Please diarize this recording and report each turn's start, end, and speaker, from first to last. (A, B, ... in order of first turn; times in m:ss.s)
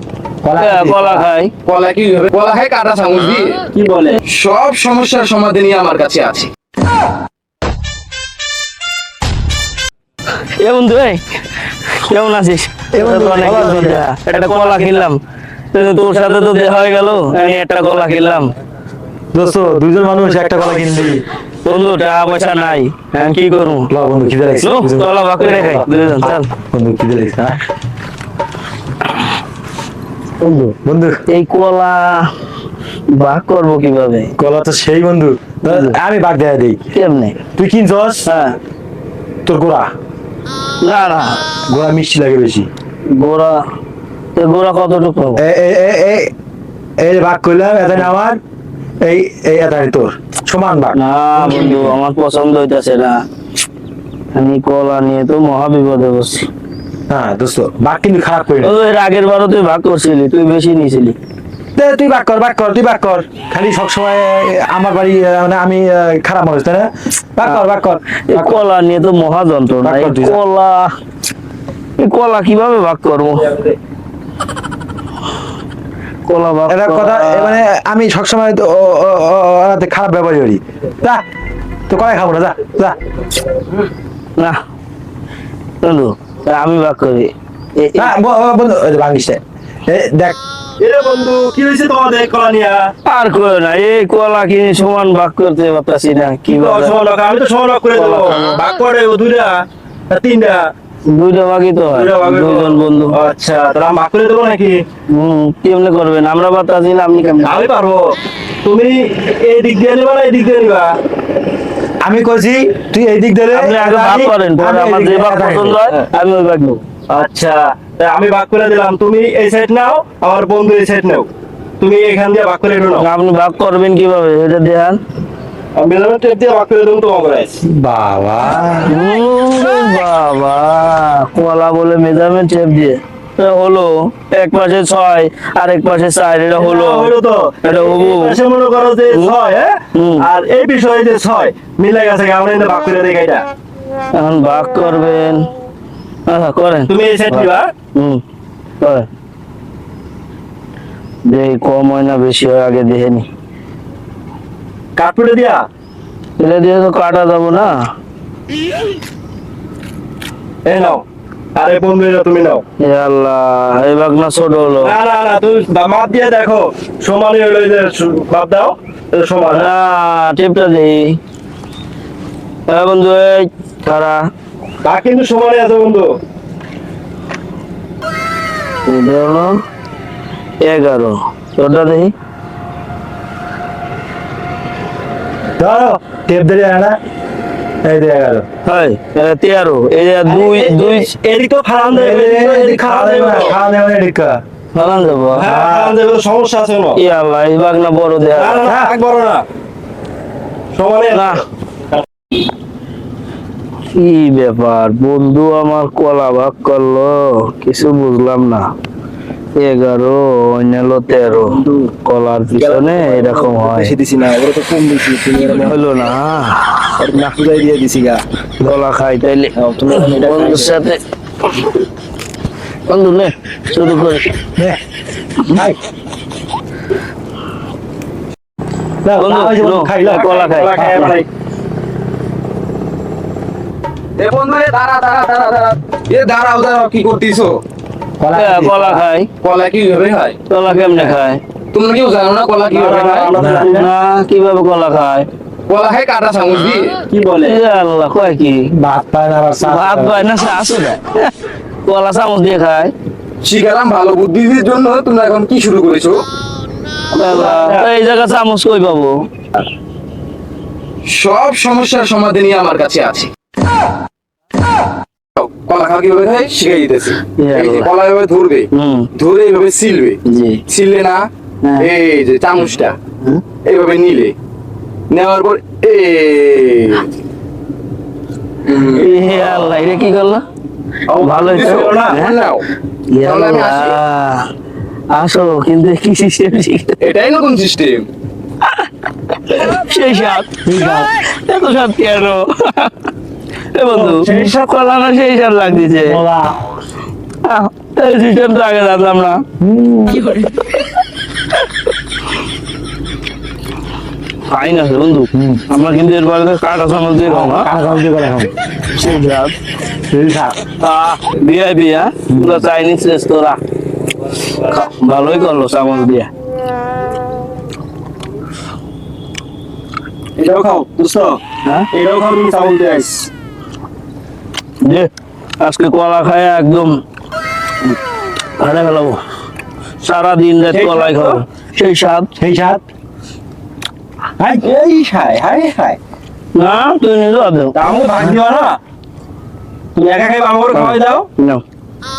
0:00.4-0:01.2 A
0:00.6-0:01.5 B
0:01.6-0:03.6 C
0:03.7-0:04.2 D
0:04.3-0:06.5 C
0:10.4-0:11.2 B
0:11.8-0:15.2 B
0:12.9-0:14.0 A
0:15.7-0:18.5 B
0:19.3-0:21.2 A
0:21.6-0:23.9 B
0:23.9-0:27.6 A
0:24.6-0:26.5 B
0:30.4-0:30.7 B
0:30.8-0:31.2 A
0:31.3-0:32.3 B
0:33.1-0:34.3 B
0:34.4-0:36.8 A
0:35.7-0:36.0 B
0:36.9-0:37.4 B
0:37.6-0:38.3 A
0:38.2-0:38.6 B
0:39.4-0:39.9 A
0:40.8-0:41.4 B
0:41.7-0:42.7 A
0:43.1-0:43.6 B
0:44.3-0:45.4 B
0:45.4-0:46.3 A
0:47.0-0:48.4 A
0:49.0-0:51.0 A
0:51.0-0:53.2 B
0:51.5-0:51.8 D
0:54.3-0:56.5 B
0:57.1-0:58.7 A
0:58.6-1:01.2 B
1:01.8-1:08.6 A
1:08.3-1:10.9 B
1:09.8-1:10.4 A
1:12.0-1:13.6 B
1:16.2-1:17.6 B
1:16.7-1:21.2 A
1:21.9-1:23.0 A
1:25.8-1:28.1 B
1:28.0-1:30.4 A
1:30.8-1:32.9 D
1:33.0-1:37.0 B
1:36.4-1:40.6 D
1:37.9-1:38.4 B
1:41.1-1:43.2 B
1:41.9-1:44.8 D
1:45.1-1:47.6 B
1:47.4-1:48.1 D
1:48.6-1:50.9 D
1:52.0-1:55.8 A
1:53.5-1:56.8 B
1:57.1-2:01.3 D
2:01.8-2:03.0 D
2:03.0-2:05.0 B
2:05.8-2:07.6 D
2:07.6-2:08.9 A
2:08.8-2:17.1 B
2:16.6-2:23.4 D
2:17.6-2:18.4 B
2:19.9-2:20.2 B
2:24.1-2:25.5 B
2:26.2-2:28.2 B
2:26.9-2:27.7 D
2:28.8-2:29.1 B
2:31.3-2:33.3 B
2:35.0-2:35.6 D
2:36.4-2:37.8 B
2:40.6-2:41.0 D
2:41.6-2:42.6 D
2:42.8-2:44.9 B
2:44.8-2:49.7 D
2:49.5-2:51.2 B
2:52.7-2:54.2 B
2:54.8-2:56.1 D
2:58.9-2:59.6 B
3:00.6-3:02.1 B
3:05.6-3:07.0 A
3:07.8-3:08.4 A
3:08.6-3:11.1 B
3:10.3-3:13.5 D
3:11.9-3:14.4 A
3:14.7-3:15.5 B
3:15.3-3:17.0 D
3:15.4-3:16.0 A
3:17.0-3:18.7 B
3:18.3-3:19.4 D
3:18.6-3:18.9 A
3:20.7-3:21.3 D
3:21.1-3:21.4 B
3:23.9-3:28.7 B
3:29.6-3:33.9 B
3:31.3-3:31.9 D
3:32.6-3:35.8 D
3:35.4-3:37.0 B
3:37.0-3:38.2 D
3:38.6-3:41.0 B
3:39.6-3:40.7 D
3:42.9-3:44.3 B
3:45.4-3:45.8 A
3:49.0-3:51.1 A
3:49.2-3:51.2 B
3:50.0-3:51.2 D
3:54.2-3:57.6 C
3:58.2-3:59.0 A
3:58.3-3:59.3 B
3:59.4-4:00.4 C
4:00.5-4:01.4 B
4:00.7-4:01.1 D
4:01.7-4:03.3 C
4:02.7-4:03.9 D
4:03.3-4:03.7 A
4:03.4-4:05.3 B
4:05.7-4:07.0 C
4:07.1-4:07.6 D
4:07.4-4:08.7 B
4:08.8-4:10.3 A
4:09.6-4:11.3 B
4:11.8-4:12.9 B
4:13.4-4:16.2 C
4:17.1-4:19.1 B
4:17.2-4:17.9 D
4:21.1-4:23.3 C
4:25.4-4:31.2 C
4:27.4-4:27.9 B
4:28.7-4:29.1 B
4:30.2-4:30.6 B
4:31.8-4:33.0 C
4:33.6-4:34.3 C
4:35.1-4:37.1 C
4:38.7-4:39.1 C
4:39.0-4:40.4 B
4:41.1-4:42.2 D
4:41.2-4:42.3 B
4:41.4-4:42.6 C
4:43.1-4:44.5 B
4:43.2-4:44.0 C
4:45.1-4:47.0 B
4:47.0-4:48.1 C
4:49.4-4:50.6 B
4:50.6-4:51.1 A
4:51.2-4:52.9 B
4:53.7-4:56.2 B
4:53.9-4:54.5 A
4:54.2-4:54.6 D
4:55.8-4:56.5 A
4:57.4-4:59.4 B
4:59.6-5:00.4 A
5:04.5-5:07.7 B
5:05.3-5:05.6 A
5:07.2-5:08.5 A
5:08.9-5:09.5 B
5:10.1-5:10.6 A
5:10.8-5:13.6 B
5:12.3-5:12.6 A
5:14.5-5:16.3 B
5:20.4-5:21.4 D
5:21.9-5:23.3 D
5:24.8-5:26.9 B
5:28.6-5:29.2 B
5:30.0-5:32.3 B
5:30.7-5:31.4 D
5:32.4-5:32.8 A
5:34.4-5:34.6 A
5:34.6-5:36.0 D
5:36.5-5:37.8 B
5:37.7-5:38.8 D
5:39.9-5:41.3 D
5:40.7-5:41.6 B